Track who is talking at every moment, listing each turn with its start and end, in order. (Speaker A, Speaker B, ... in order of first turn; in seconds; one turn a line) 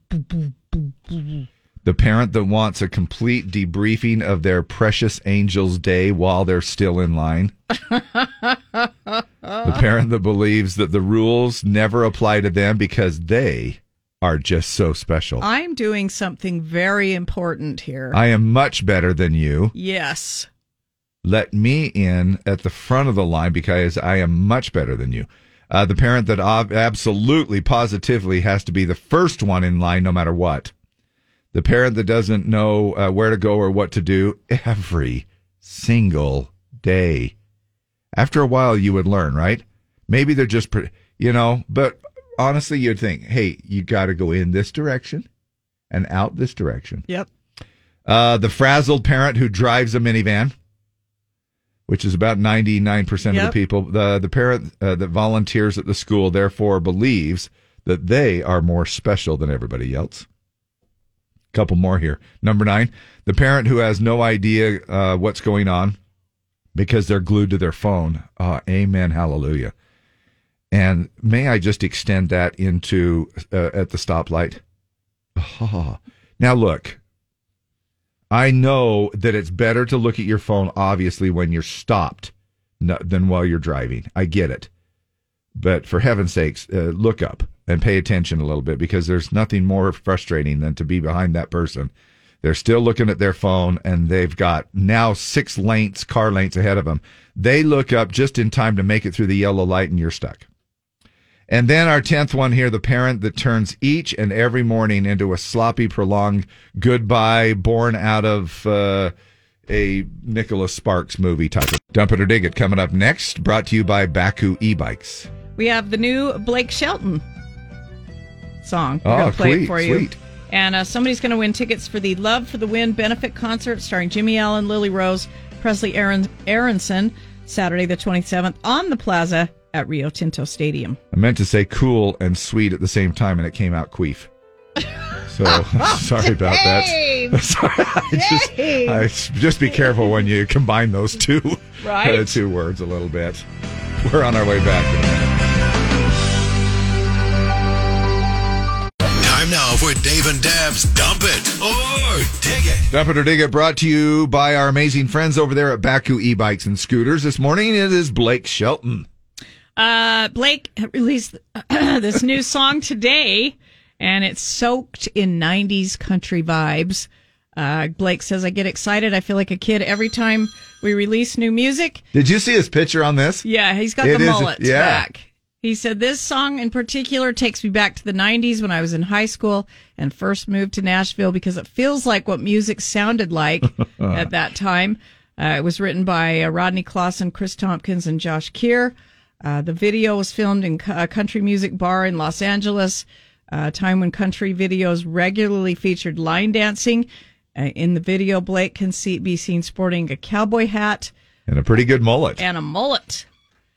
Speaker A: 1.8-7.5
Speaker B: 7.9-8.8
Speaker A: 9.6-15.4
Speaker B: 15.4-18.2
Speaker A: 18.1-19.7
Speaker B: 19.7-20.5
Speaker A: 21.2-30.7
Speaker A: 31.5-37.3
Speaker A: 38.1-45.3
Speaker A: 45.9-47.0
Speaker A: 48.0-50.5
Speaker A: 51.9-60.3
Speaker B: 53.3-53.5
Speaker A: 61.5-66.0
Speaker A: 66.7-69.7
Speaker A: 70.7-74.6
Speaker A: 75.3-77.0
Speaker A: 78.3-84.7
Speaker A: 85.5-100.5
Speaker A: 101.5-109.1
Speaker A: 109.7-115.3
Speaker B: 115.5-117.2
Speaker B: 118.6-131.0
Speaker A: 119.0-120.2
Speaker A: 131.1-134.3
Speaker A: 135.3-143.4
Speaker B: 136.2-137.4
Speaker B: 138.1-139.0
Speaker B: 141.8-142.4
Speaker A: 144.0-145.4
Speaker C: 149.1-152.9
Speaker A: 152.9-159.1
Speaker B: 159.8-172.0
Speaker A: 172.1-173.4
Speaker B: 173.4-201.1
Speaker A: 174.0-175.1
Speaker A: 184.0-184.3
Speaker A: 201.5-202.4
Speaker B: 202.4-203.2